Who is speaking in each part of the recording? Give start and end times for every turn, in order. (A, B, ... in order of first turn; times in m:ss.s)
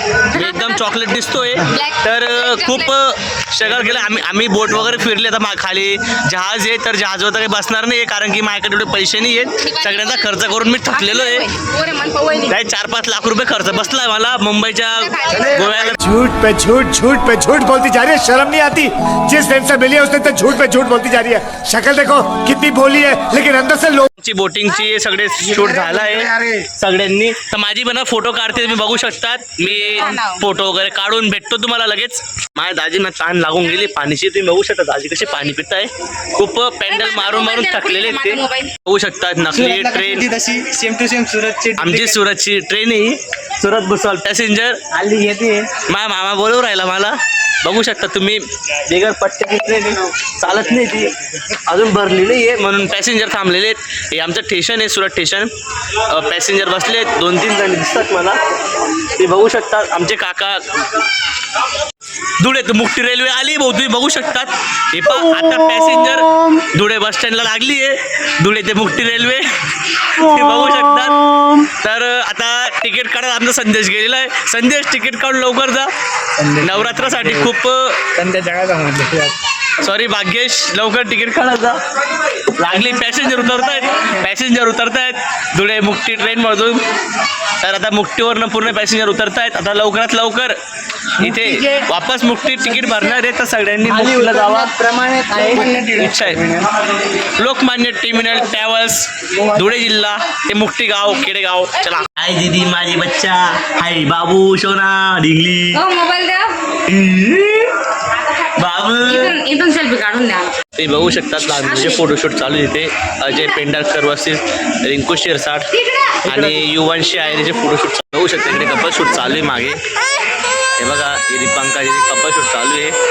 0:00.2-0:11.5 A
0:01.8-0:02.8 B
0:09.6-0:10.1 B
0:11.0-0:12.5 B
0:12.4-0:16.0 A
0:15.0-0:15.5 B
0:16.0-0:24.1 C
0:24.2-0:40.4 A
0:25.6-0:26.5 D
0:30.0-0:30.4 B
0:36.9-0:38.7 B
0:39.5-0:42.1 D
0:41.7-0:44.8 A
0:44.9-0:45.7 D
0:45.8-1:01.0 A
1:02.4-1:15.9 A
1:16.5-1:18.1 A
1:16.6-1:17.3 D
1:18.2-1:19.3 D
1:19.8-1:21.8 A
1:22.6-1:26.8 A
1:27.6-1:30.6 A
1:31.2-1:34.8 A
1:33.8-1:36.7 D
1:35.4-1:36.5 A
1:37.0-1:45.8 A
1:45.7-1:46.6 B
1:46.8-1:47.8 A
1:48.4-1:49.4 A
1:49.0-1:50.6 B
1:50.8-1:55.7 A
1:56.2-1:59.8 A
2:00.8-2:02.9 A